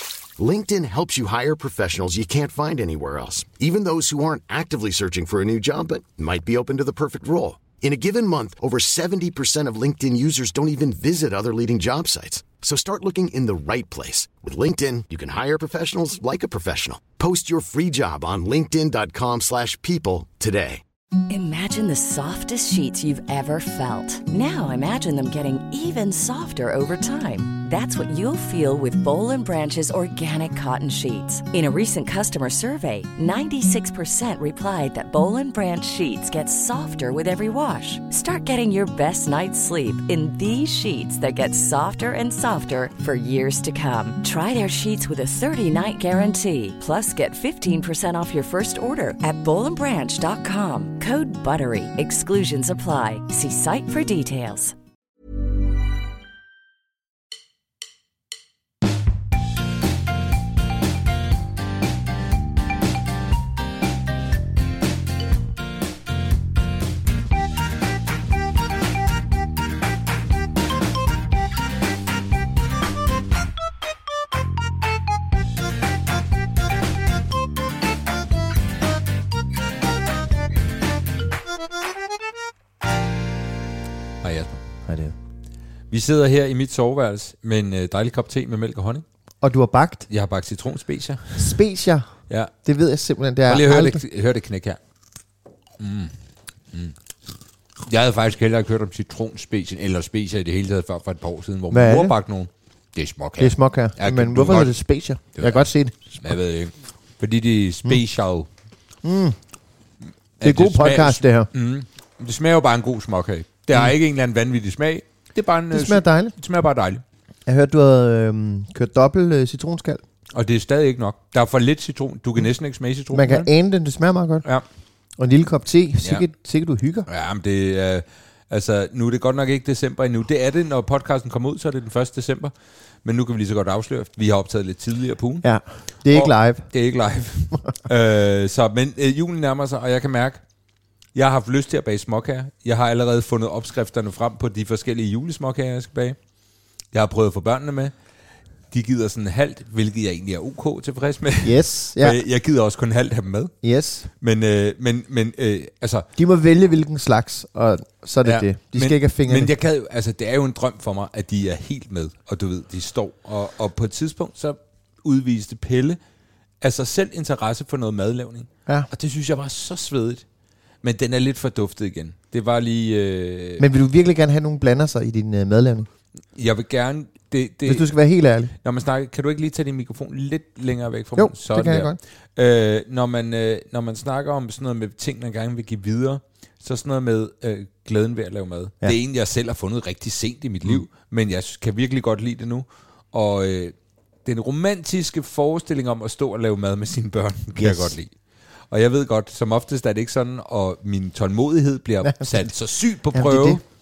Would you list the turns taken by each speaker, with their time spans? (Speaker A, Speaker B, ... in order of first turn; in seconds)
Speaker A: 0.4-20.8
Speaker B: 21.3-54.7
Speaker C: 84.2-84.6, 85.9-89.0, 90.1-91.5, 93.5-94.8, 95.8-96.1, 97.8-104.7, 105.3-108.5, 110.4-117.0, 120.3-123.5, 127.1-132.5, 133.0-135.5, 136.1-140.4, 141.1-146.2, 146.9-147.9, 148.7-153.5, 154.2-156.1, 158.2-166.0, 166.6-170.2, 170.8-173.6, 176.3-177.9, 178.6-193.7, 194.2-198.1, 198.7-203.6
Speaker D: 84.9-85.1, 89.4-90.0, 91.4-92.1, 92.6-94.0, 101.7-102.1, 103.4-106.1, 109.0-109.4, 110.4-111.5, 115.7-116.3, 117.5-120.0, 123.1-124.5, 125.2-127.0, 135.4-136.7, 151.4-152.2, 153.6-154.1, 156.2-159.5, 173.6-175.9, 177.6-178.5, 181.2-182.0, 197.6-197.9, 202.0-202.5, 203.1-203.6